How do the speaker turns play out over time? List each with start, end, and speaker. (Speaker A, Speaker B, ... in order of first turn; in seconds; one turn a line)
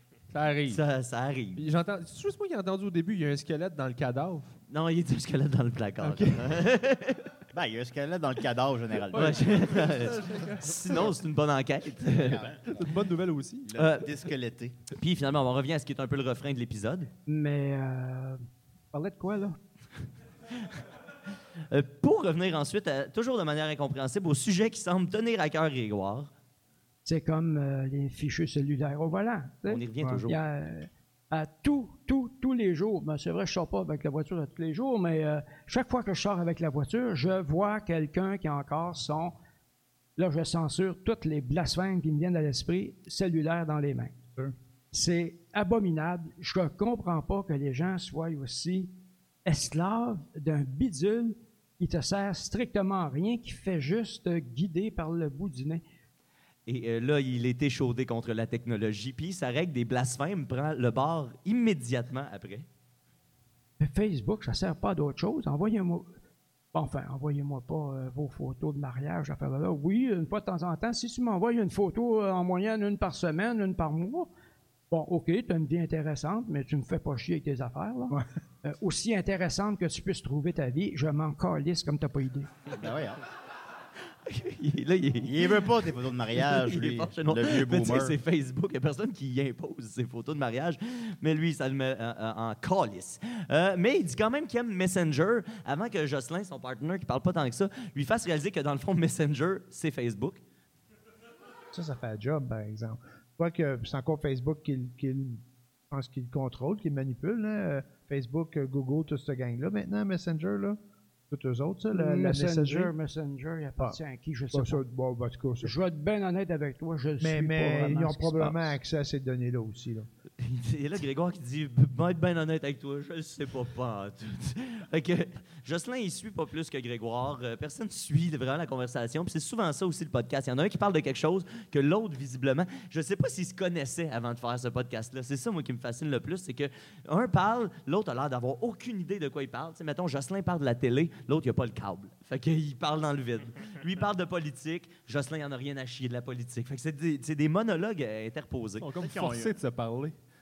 Speaker A: 0.3-0.8
Speaker B: 0.7-1.6
Speaker A: 1.6-4.5
Speaker B: 4.7-7.3
Speaker A: 6.0-6.4
Speaker C: 7.5-9.6
Speaker A: 9.1-11.1
Speaker B: 9.1-12.5
Speaker C: 12.1-12.8
Speaker A: 12.6-13.7
Speaker C: 13.7-14.8
Speaker B: 13.7-14.1
Speaker B: 14.9-17.1
Speaker D: 17.3-18.4
Speaker D: 18.9-19.6
Speaker B: 21.7-26.3
Speaker D: 27.0-39.4
Speaker B: 29.6-30.4
Speaker D: 40.2-44.1
Speaker D: 44.9-55.8
Speaker B: 56.6-62.6
Speaker D: 63.8-66.1
Speaker D: 66.7-74.3
Speaker D: 74.9-82.5
Speaker C: 82.7-83.2
Speaker B: 84.2-85.8
Speaker C: 85.2-88.2
Speaker B: 86.3-100.4
Speaker E: 101.7-110.8
Speaker E: 111.3-112.9
Speaker D: 111.9-114.8
Speaker E: 114.5-115.7
Speaker D: 115.6-118.8
Speaker E: 117.2-120.1
Speaker B: 120.4-148.9
Speaker A: 148.8-150.2
Speaker C: 148.9-149.5